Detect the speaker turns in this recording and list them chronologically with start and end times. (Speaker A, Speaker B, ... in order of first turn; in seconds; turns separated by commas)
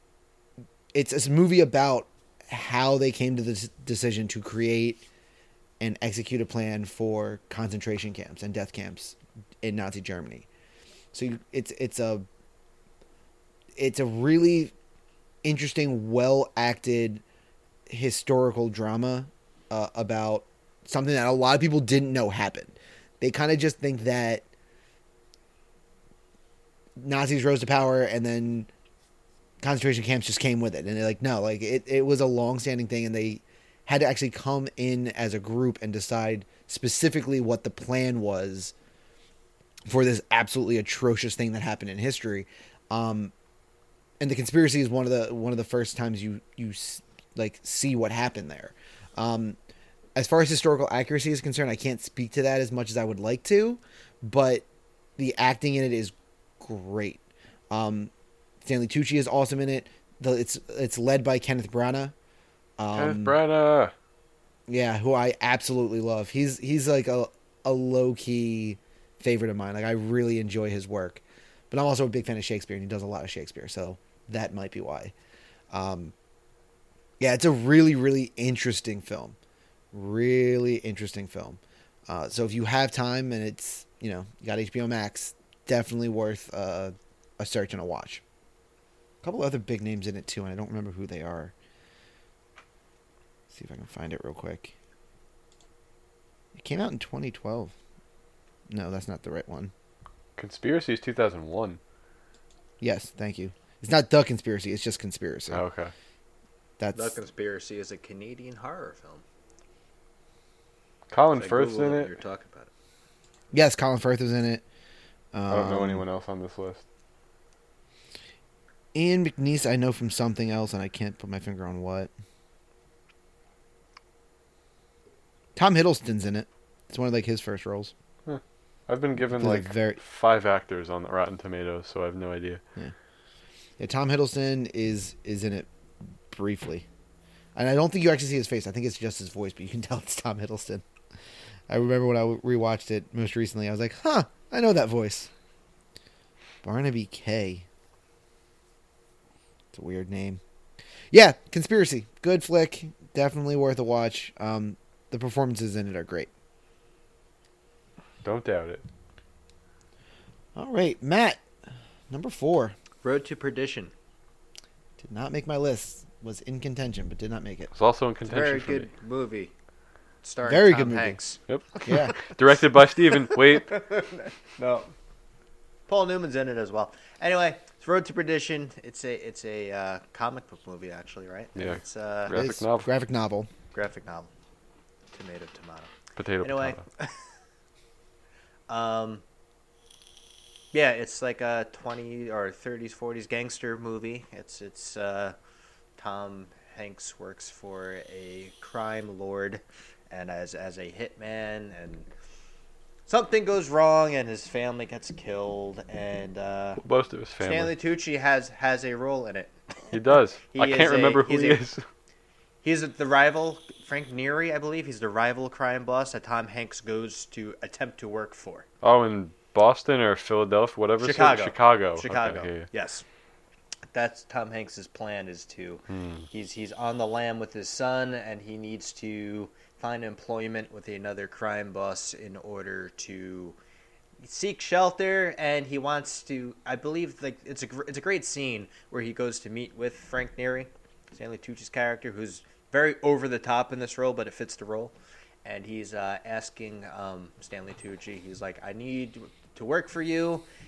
Speaker A: 0.9-5.0, Speaker A: 5.8-10.5, Speaker A: 11.1-12.2, Speaker A: 13.8-14.7, Speaker A: 15.4-17.2, Speaker A: 17.9-24.4, Speaker A: 27.0-28.7, Speaker A: 29.6-38.7, Speaker A: 39.9-43.3, Speaker A: 44.2-49.6, Speaker A: 50.1-54.6, Speaker A: 55.2-57.2, Speaker A: 57.7-58.1, Speaker A: 58.6-62.1, Speaker A: 62.8-63.4, Speaker B: 62.9-63.9, Speaker A: 64.7-75.1, Speaker A: 75.7-76.1, Speaker A: 77.2-79.4, Speaker A: 79.9-88.2, Speaker A: 89.2-91.5, Speaker A: 93.5-94.7, Speaker A: 96.5-97.7, Speaker A: 98.7-99.7, Speaker B: 100.4-101.8, Speaker A: 102.8-105.6, Speaker B: 105.5-105.9, Speaker A: 106.8-107.1, Speaker C: 106.9-109.2, Speaker B: 111.1-112.1, Speaker C: 111.3-112.7, Speaker A: 113.5-114.6, Speaker A: 115.3-116.0, Speaker B: 115.5-116.8, Speaker A: 118.9-122.1, Speaker A: 125.5-127.9, Speaker B: 128.2-132.6, Speaker A: 129.3-130.0, Speaker A: 133.8-135.7, Speaker A: 136.3-136.8, Speaker A: 137.6-140.8, Speaker A: 141.7-145.3, Speaker A: 146.6-147.7, Speaker A: 149.7-150.4, Speaker A: 151.1-156.3, Speaker B: 158.2-158.8, Speaker A: 160.5-161.4, Speaker A: 162.1-162.8, Speaker C: 163.0-163.9, Speaker A: 165.0-167.7, Speaker B: 167.7-168.9, Speaker C: 168.2-169.5, Speaker C: 170.2-172.2, Speaker A: 170.4-171.2, Speaker B: 171.5-173.7, Speaker A: 171.8-172.1, Speaker C: 173.3-174.9, Speaker C: 175.9-182.4, Speaker B: 181.6-182.9, Speaker A: 182.3-183.5, Speaker C: 183.7-184.3, Speaker C: 185.1-187.1, Speaker B: 186.2-186.8, Speaker C: 188.7-189.2, Speaker C: 190.7-195.3, Speaker C: 196.0-202.1, Speaker C: 203.1-206.8, Speaker B: 206.8-207.7, Speaker C: 207.4-209.5, Speaker B: 209.9-211.8, Speaker C: 210.5-211.6, Speaker C: 212.6-218.7, Speaker B: 218.8-222.7, Speaker C: 221.0-223.0, Speaker C: 223.9-233.6, Speaker B: 225.9-226.2, Speaker C: 234.2-244.9, Speaker C: 245.4-250.5